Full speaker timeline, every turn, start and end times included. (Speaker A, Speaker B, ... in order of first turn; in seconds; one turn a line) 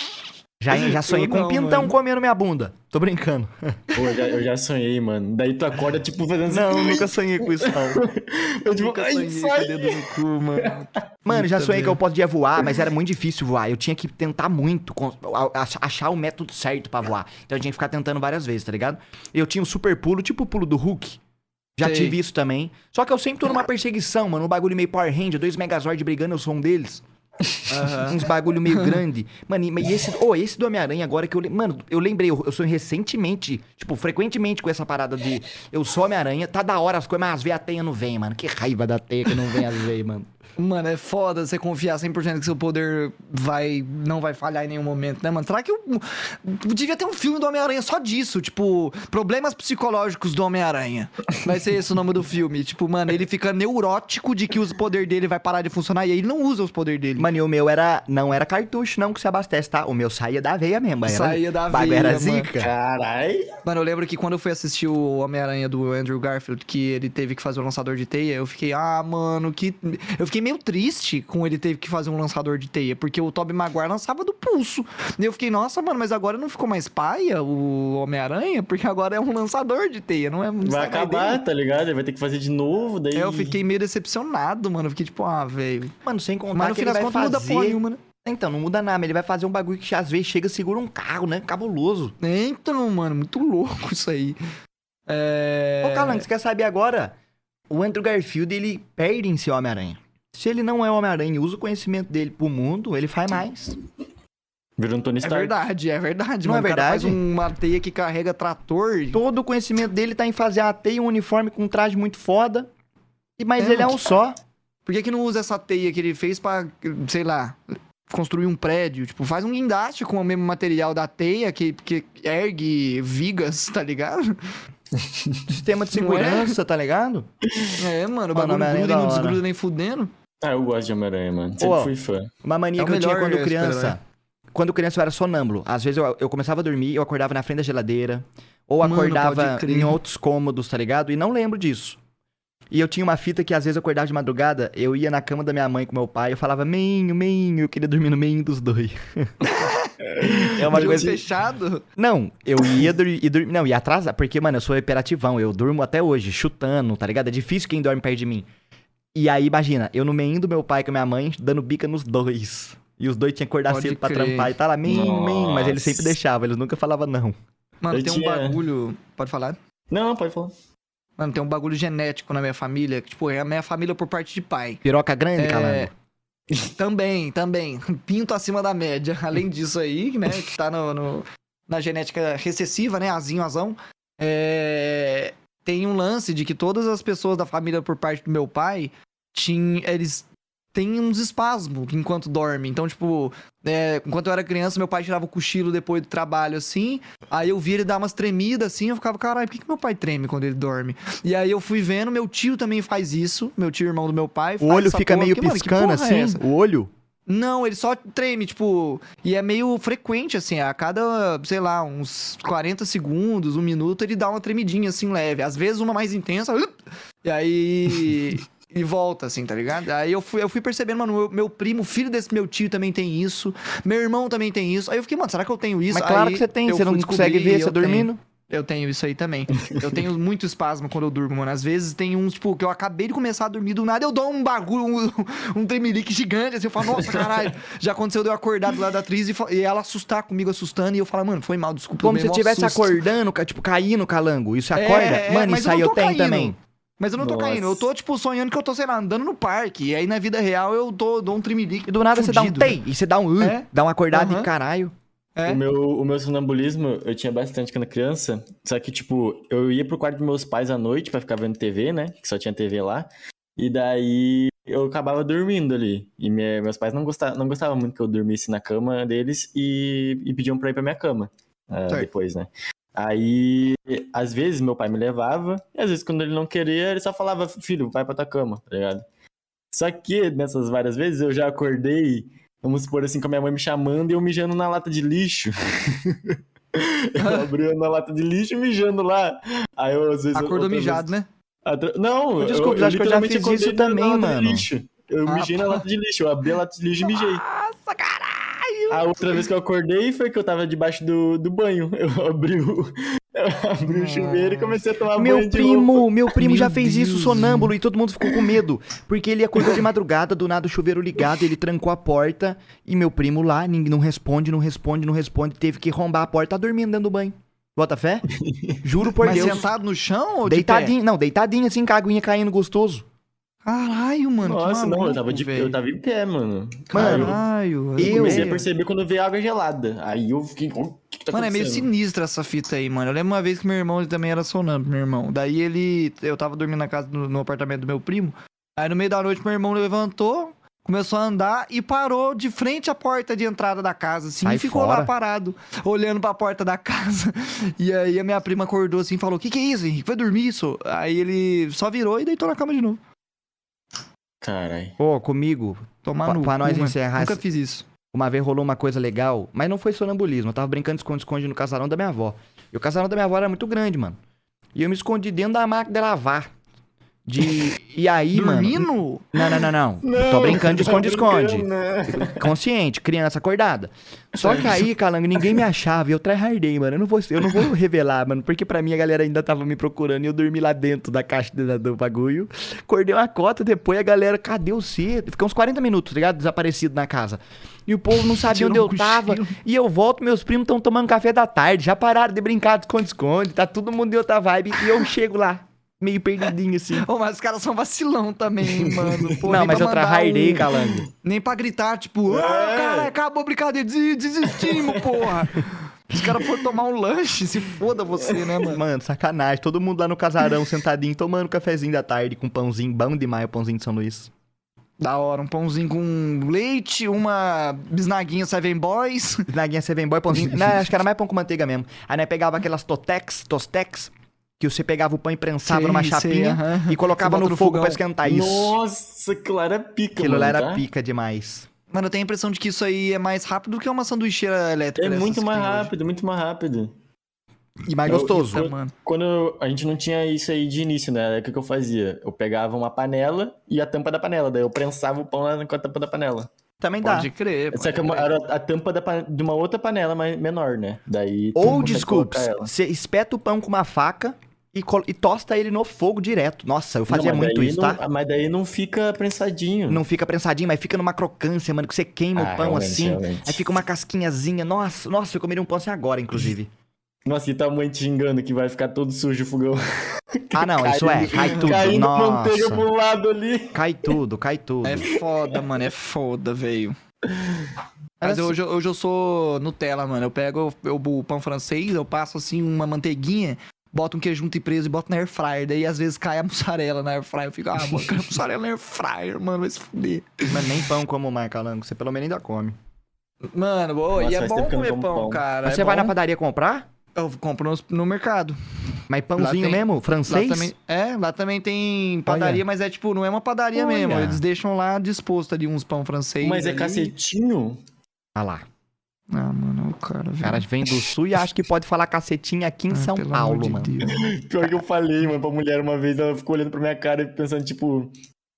Speaker A: 0.6-4.0
Speaker B: 0.7-1.9
Speaker C: 4.0-10.8
Speaker A: 6.5-8.1
Speaker B: 8.7-12.0
Speaker A: 11.2-21.2
Speaker A: 21.8-27.0
Speaker B: 21.8-22.2
Speaker B: 27.7-29.0
Speaker A: 28.0-40.3
Speaker B: 40.6-57.3
Speaker A: 57.2-62.7
Speaker B: 61.1-62.5
Speaker C: 62.6-63.5
Speaker B: 63.6-81.4
Speaker C: 80.6-83.6
Speaker B: 83.1-85.9
Speaker A: 86.0-92.2
Speaker B: 86.5-88.0
Speaker B: 92.2-94.4
Speaker B: 95.1-96.3
Speaker A: 95.8-97.1
Speaker A: 97.7-103.8
Speaker C: 104.8-105.6
Speaker B: 105.2-109.2
Speaker A: 106.4-107.2
Speaker A: 109.1-112.7
Speaker A: 113.4-114.4
Speaker B: 113.6-114.0
Speaker B: 114.9-124.4
Speaker C: 125.0-125.5
Speaker A: 125.5-127.3
Speaker B: 125.9-126.6
Speaker B: 127.8-130.1
Speaker A: 128.3-129.4
Speaker C: 130.4-132.3
Speaker A: 131.6-131.9
Speaker A: 132.4-134.0
Speaker B: 132.8-134.0
Speaker A: 134.5-142.0
Speaker B: 138.8-140.0
Speaker A: 142.7-149.3
Speaker B: 149.4-151.8
Speaker C: 150.1-151.2
Speaker A: 150.4-151.2
Speaker A: 152.0-158.5
Speaker A: 159.2-167.4
Speaker B: 163.7-164.5
Speaker C: 164.8-166.2
Speaker B: 167.8-169.6
Speaker C: 167.9-168.6
Speaker C: 169.9-170.5
Speaker B: 171.2-174.8
Speaker A: 174.8-175.9
Speaker B: 175.4-175.9
Speaker B: 176.7-206.4
Speaker A: 204.6-206.9
Speaker B: 207.3-243.0
Speaker A: 225.9-228.2
Speaker C: 237.0-237.4
Speaker A: 242.0-246.6
Speaker B: 244.8-252.8
Speaker C: 247.2-247.9
Speaker A: 251.9-254.9
Speaker B: 253.4-254.5
Speaker C: 255.5-279.0
Speaker C: 279.7-291.1
Speaker B: 287.2-287.5
Speaker B: 290.3-291.3
Speaker C: 291.6-297.4
Speaker A: 292.4-294.7
Speaker B: 295.3-295.8
Speaker B: 297.0-299.4
Speaker C: 298.9-306.5
Speaker B: 303.9-304.8
Speaker A: 305.1-318.3
Speaker B: 306.4-307.7
Speaker C: 318.4-318.8
Speaker A: 318.8-319.7
Speaker B: 319.2-320.9
Speaker A: 320.5-323.1
Speaker B: 323.6-325.8
Speaker C: 324.4-327.4
Speaker B: 326.9-328.7
Speaker A: 326.9-327.4
Speaker A: 328.0-328.6
Speaker C: 328.0-331.9
Speaker B: 331.3-353.0
Speaker A: 344.4-345.1
Speaker C: 354.4-355.0
Speaker A: 355.0-357.4
Speaker B: 356.1-357.9
Speaker A: 358.1-364.2
Speaker A: 364.8-366.5
Speaker A: 367.3-397.1
Speaker B: 368.3-369.3
Speaker C: 369.4-372.5
Speaker C: 374.4-374.8
Speaker B: 388.4-389.6
Speaker B: 397.0-408.8
Speaker C: 398.6-399.5
Speaker A: 399.4-401.1
Speaker C: 400.8-401.0
Speaker C: 402.3-403.1
Speaker C: 404.5-405.4
Speaker A: 408.6-414.3
Speaker B: 415.0-419.5
Speaker A: 419.5-428.8
Speaker B: 425.6-428.0
Speaker C: 428.2-430.8
Speaker A: 430.2-431.7
Speaker B: 431.9-435.9
Speaker C: 435.0-436.9
Speaker A: 437.9-438.7
Speaker B: 437.9-438.9
Speaker C: 438.1-446.5
Speaker A: 446.8-447.3
Speaker B: 447.0-448.3
Speaker C: 447.7-452.7
Speaker A: 451.6-458.0
Speaker C: 457.1-460.0
Speaker A: 459.9-466.7
Speaker C: 462.4-463.7
Speaker C: 467.2-474.1
Speaker A: 470.5-472.9
Speaker B: 471.4-471.7
Speaker A: 473.7-475.1
Speaker B: 474.8-477.0
Speaker C: 475.2-475.6
Speaker C: 477.3-477.7
Speaker B: 478.2-490.7
Speaker A: 478.2-478.6
Speaker A: 490.5-492.8
Speaker B: 493.5-496.1
Speaker C: 494.2-495.5
Speaker A: 495.6-496.9
Speaker B: 497.2-498.6
Speaker A: 499.1-500.7
Speaker B: 499.4-507.1
Speaker A: 502.3-502.6
Speaker A: 503.7-504.4
Speaker C: 506.4-507.8
Speaker A: 508.4-508.6
Speaker B: 509.3-510.7
Speaker A: 510.4-514.1
Speaker B: 512.9-514.2
Speaker C: 514.0-518.2